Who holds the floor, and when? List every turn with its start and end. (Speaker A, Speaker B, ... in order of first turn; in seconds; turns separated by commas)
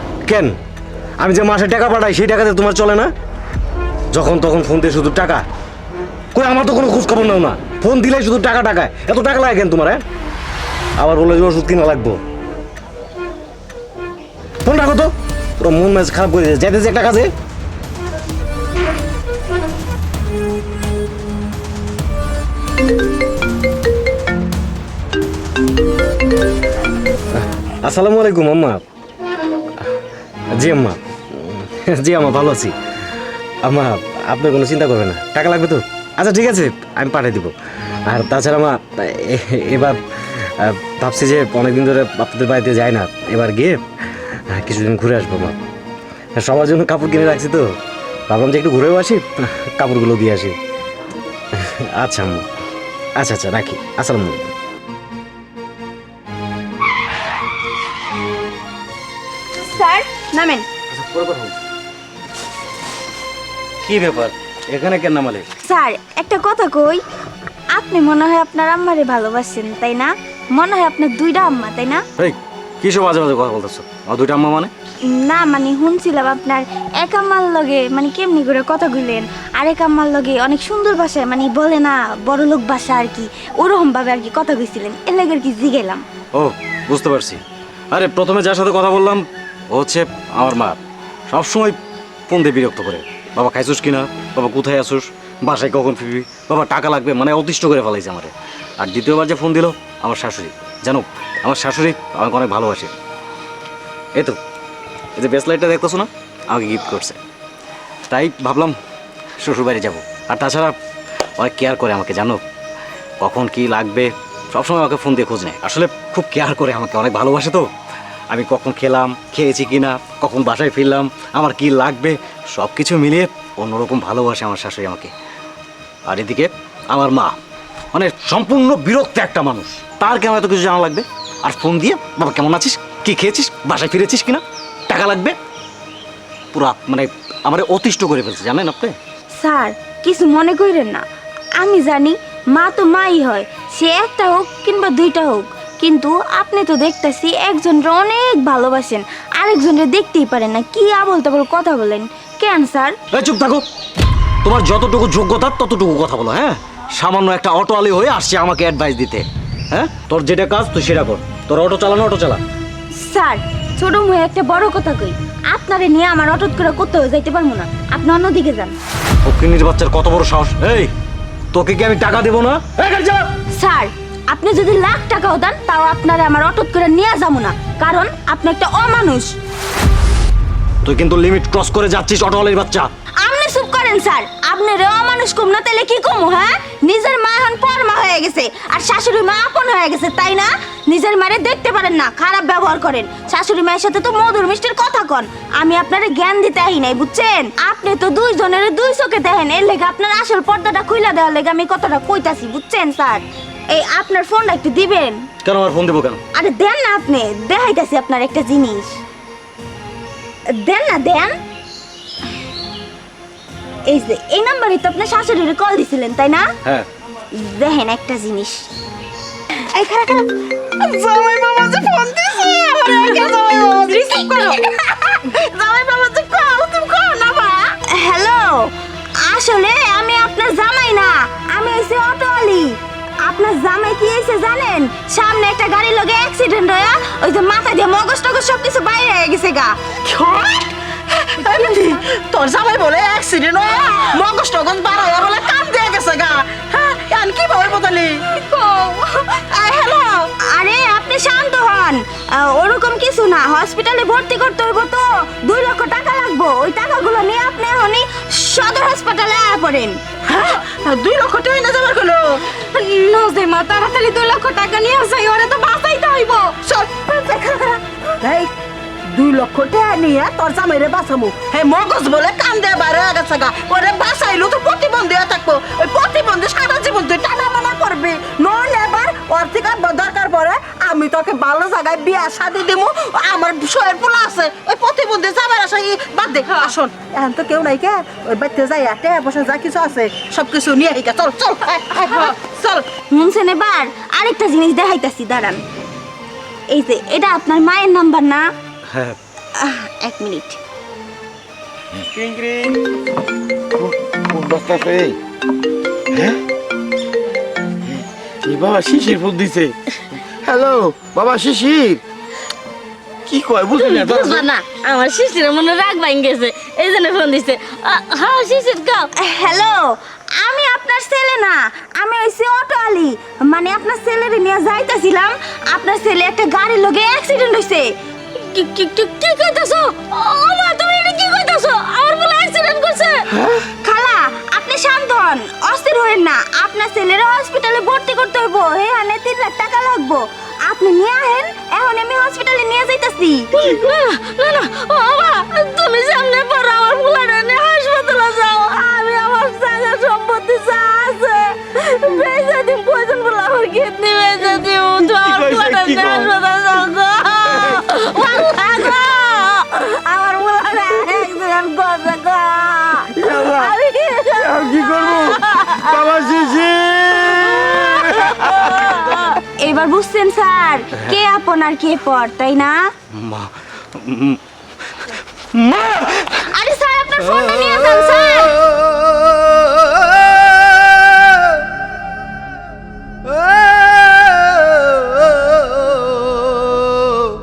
Speaker A: 0.3-0.6, Speaker A: 1.2-3.1, Speaker A: 4.1-5.4, Speaker A: 6.3-10.0, Speaker A: 11.0-12.2, Speaker A: 14.6-17.3, Speaker A: 27.3-28.8, Speaker A: 30.6-32.7, Speaker A: 33.6-37.5, Speaker A: 38.1-43.8, Speaker A: 44.3-45.6, Speaker A: 46.4-47.7, Speaker A: 48.3-50.6, Speaker A: 51.6-52.5, Speaker A: 53.2-54.5, Speaker B: 59.6-60.7, Speaker A: 60.9-61.5, Speaker A: 63.8-65.5, Speaker B: 65.6-67.0, Speaker B: 67.7-72.0, Speaker A: 72.2-74.7, Speaker B: 75.0-86.0, Speaker A: 86.3-90.8, Speaker A: 91.3-91.8, Speaker A: 92.3-102.9, Speaker A: 105.2-107.2, Speaker A: 108.1-108.8, Speaker A: 109.4-110.8, Speaker A: 111.4-112.4, Speaker A: 113.2-117.7, Speaker A: 118.3-125.1, Speaker A: 126.1-127.4, Speaker A: 127.9-135.4, Speaker A: 136.5-139.0, Speaker B: 139.4-141.0, Speaker B: 141.6-153.0, Speaker A: 153.1-153.7, Speaker A: 154.4-162.4, Speaker B: 162.9-168.8, Speaker A: 169.2-170.9, Speaker A: 171.5-173.3, Speaker B: 173.5-179.4, Speaker A: 180.8-182.9, Speaker B: 183.2-205.3, Speaker A: 205.4-206.2, Speaker B: 206.3-209.0, Speaker B: 210.5-211.4, Speaker B: 213.8-216.5, Speaker B: 217.3-218.7, Speaker B: 219.6-239.9, Speaker C: 240.1-240.7, Speaker C: 241.3-248.2, Speaker B: 248.3-249.4, Speaker C: 249.3-250.2, Speaker B: 250.2-260.0, Speaker C: 260.3-262.4, Speaker B: 262.6-266.6, Speaker C: 266.6-268.5, Speaker C: 269.1-292.9, Speaker B: 293.1-295.6, Speaker B: 296.7-298.5, Speaker A: 298.9-299.2, Speaker B: 299.6-300.6, Speaker D: 302.1-302.8, Speaker D: 303.7-305.2, Speaker D: 306.1-306.4, Speaker D: 307.9-309.7, Speaker D: 310.3-312.0, Speaker D: 313.3-314.5, Speaker E: 313.8-319.1, Speaker B: 319.1-343.5, Speaker E: 343.5-350.6, Speaker B: 350.5-354.1, Speaker E: 352.1-352.6, Speaker E: 353.4-358.4, Speaker D: 355.3-356.3, Speaker B: 357.8-366.4, Speaker D: 364.6-365.4, Speaker D: 365.9-368.2, Speaker B: 367.4-372.9, Speaker A: 373.1-374.4, Speaker A: 375.4-376.4, Speaker B: 376.4-378.6